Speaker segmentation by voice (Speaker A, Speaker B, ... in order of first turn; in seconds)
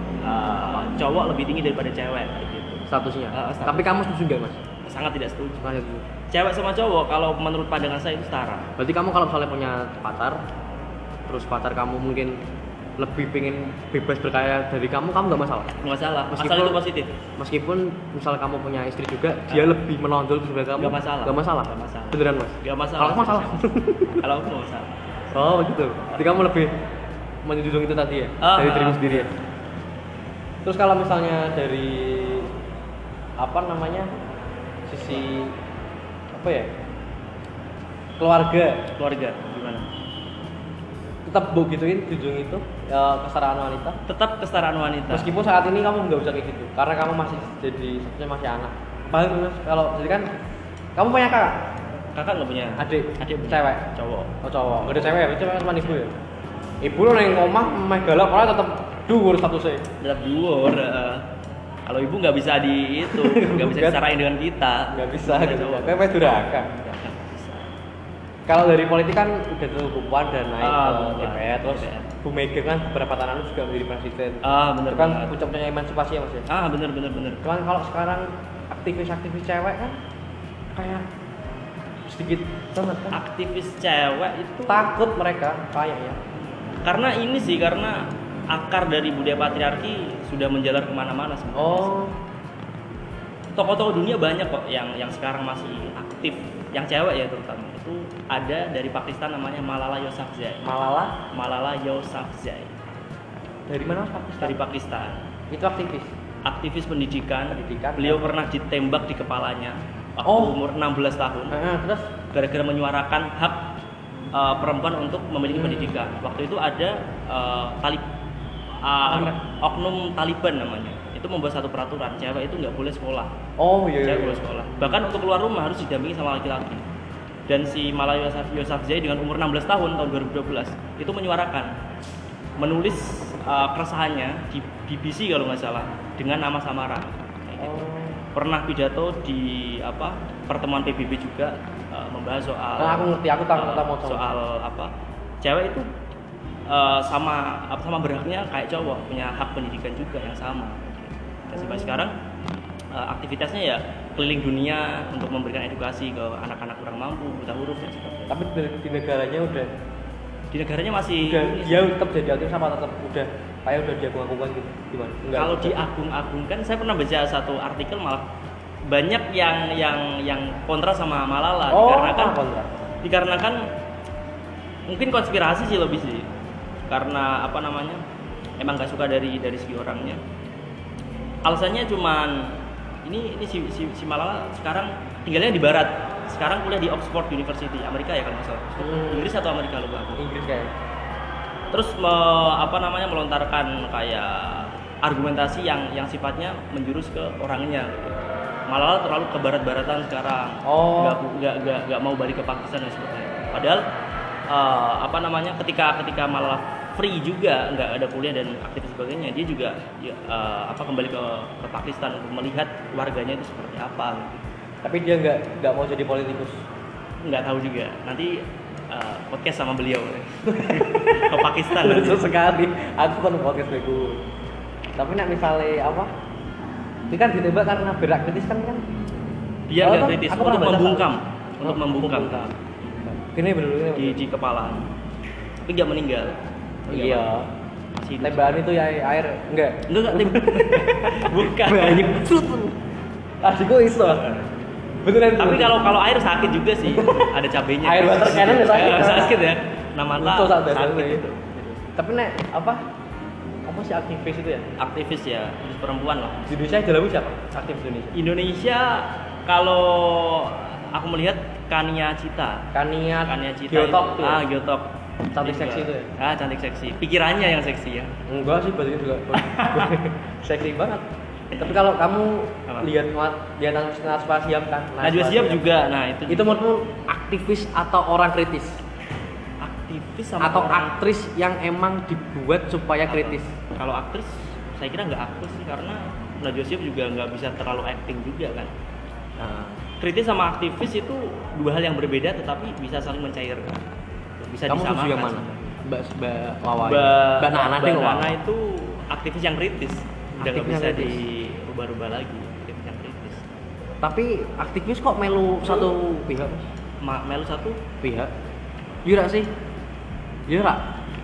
Speaker A: 0.2-4.0, 4.8-5.7, 6.3-8.7, 15.8-17.1, 19.5-19.8, 20.8-25.0, 28.4-29.3, 39.0-39.9, 44.1-45.3, 52.1-54.3, 60.0-61.2, 61.9-67.7, 70.6-72.1, 74.4-75.3, 76.5-77.4, 83.1-84.9, 86.8-92.0, 93.5-102.7, 104.4-105.2, 106.4-111.5, 112.3-113.7, 114.3-118.0, 118.8-123.3, 124.0-126.8, 127.5-131.7, 132.6-145.9, 146.7-152.1, 152.9-158.4, 160.5-161.8, 165.3-168.3, 168.8-172.4, 173.0-173.7, 174.9-176.3, 176.9-178.0, 178.6-180.2, 181.4-190.2, 191.7-203.8, 204.5-214.4, 217.2-222.2, 229.7-233.1, 233.9-234.9, 235.6-238.7, 239.9-242.1, 244.1-244.5, 245.4-251.8, 254.8-256.8, 258.1-262.7, 263.2-268.1, 269.3-269.9, 271.5-271.8, 275.0-276.6, 279.6-280.9, 283.1-288.7, 290.0-293.8, 294.4-295.8, 296.8-303.4, 307.0-307.8
Speaker B: 2.9-4.6, 5.6-6.0, 8.8-10.4, 11.2-12.4, 13.0-15.7, 16.3-16.8, 17.4-24.2, 25.3-26.7, 27.4-29.3, 30.6-32.5, 33.4-34.1, 34.9-35.5, 36.3-36.7, 38.2-38.9, 41.2-44.0, 45.1-50.3, 51.0-51.7, 52.8-53.9, 54.4-56.1, 56.8-59.9, 63.1-64.0, 64.9-66.7, 68.5-76.5, 77.4-80.0, 80.7-81.0, 82.0-83.2, 84.7-86.2, 91.5-92.2, 100.6-101.2, 103.7-104.6, 105.5-106.1, 107.5-108.4, 110.2-110.6, 111.5-112.1, 115.5-116.0, 119.1-119.4, 123.6-124.4, 137.6-138.2, 142.8-144.3, 158.3-159.7, 161.2-165.8, 171.7-172.7, 188.8-189.3, 190.2-190.7, 200.6-201.2, 214.8-216.6, 220.5-224.2, 225.0-226.1, 227.1-228.8, 229.8-231.1, 231.6-232.6, 233.1-234.2, 236.9-237.5, 238.2-242.8, 243.4-244.4, 245.0-245.9, 246.9-247.3, 247.8-249.5, 250.2-251.2, 251.9-252.8, 253.7-254.7, 256.5-258.1, 262.7-264.4, 265.3-266.1, 268.3-271.0, 271.6-275.6, 276.3-278.8, 280.4-283.5, 289.4-289.8, 294.6-298.4, 300.4-301.2, 304.0-306.7, 308.0-308.3, 309.0-309.5, 310.5-310.8